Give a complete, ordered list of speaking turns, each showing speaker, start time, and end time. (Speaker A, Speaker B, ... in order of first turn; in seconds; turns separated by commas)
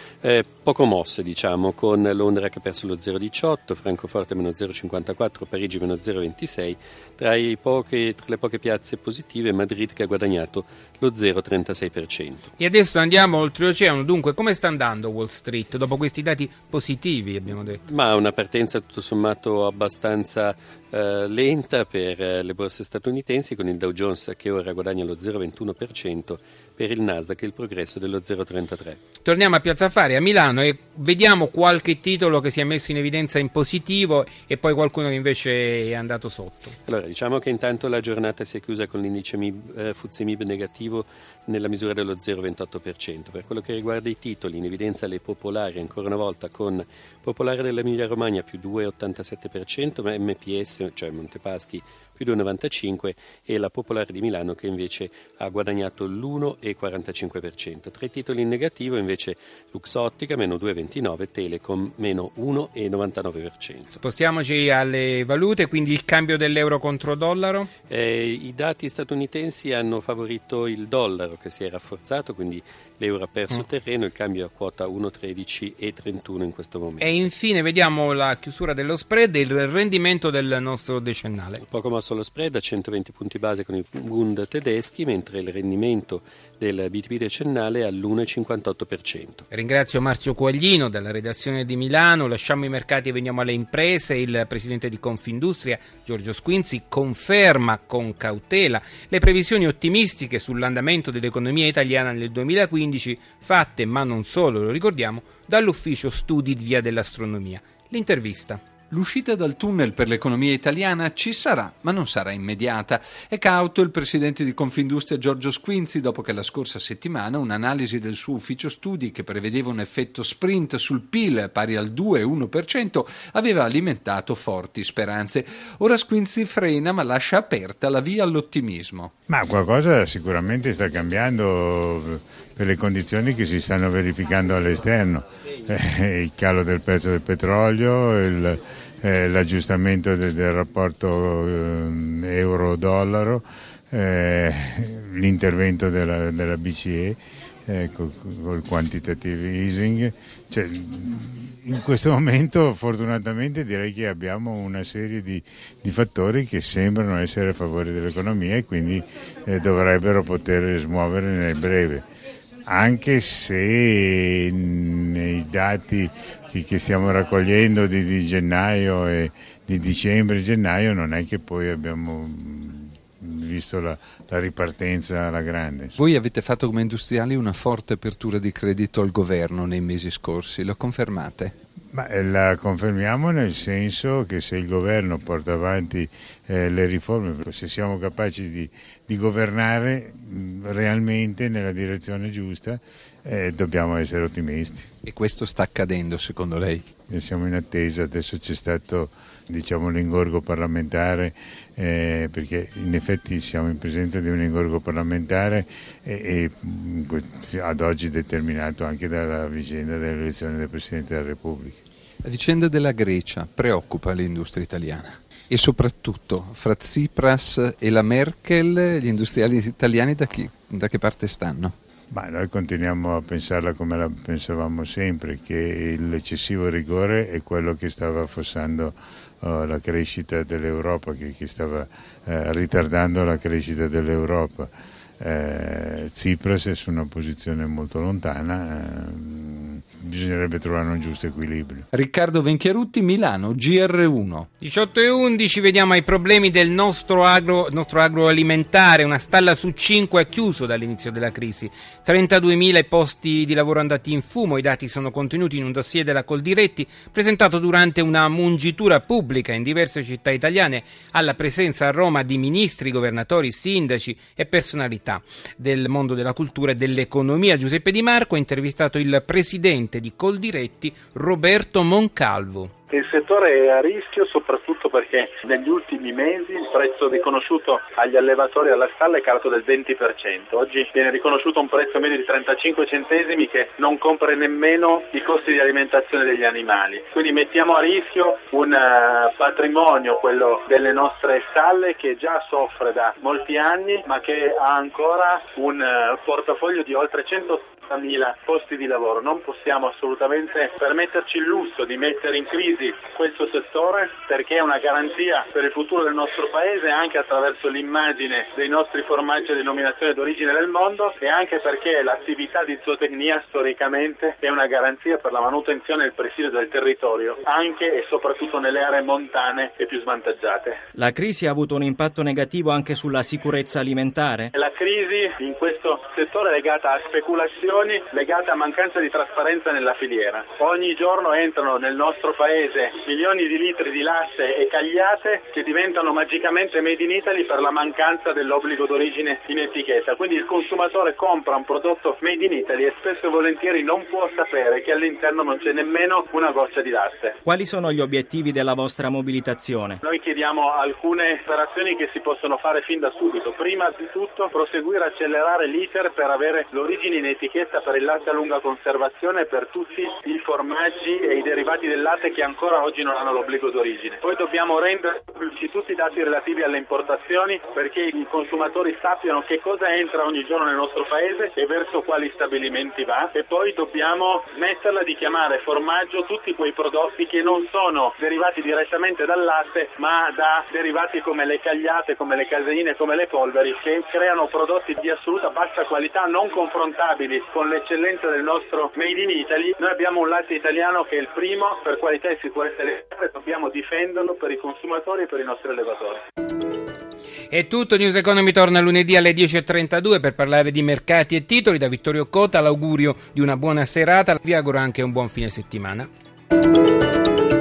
Speaker A: 0.2-12.5, Speaker B: 12.6-17.8, Speaker A: 17.9-29.0, Speaker B: 29.2-36.7, Speaker A: 36.9-64.0, Speaker B: 64.0-67.7, Speaker A: 67.9-77.3, Speaker B: 77.0-81.6, Speaker A: 81.6-89.5, Speaker B: 89.5-108.6, Speaker C: 108.9-129.1, Speaker D: 129.3-162.1, Speaker D: 162.7-176.0, Speaker C: 176.0-181.5, Speaker D: 181.9-194.9, Speaker C: 195.1-196.9, Speaker D: 197.1-211.8, Speaker C: 212.2-221.8, Speaker D: 222.1-241.9, Speaker C: 241.9-244.5, Speaker B: 244.6-272.7, Speaker E: 272.9-320.8, Speaker F: 320.9-324.5, Speaker E: 324.5-347.4, Speaker F: 347.4-350.0, Speaker E: 350.1-396.2, Speaker B: 397.5-406.1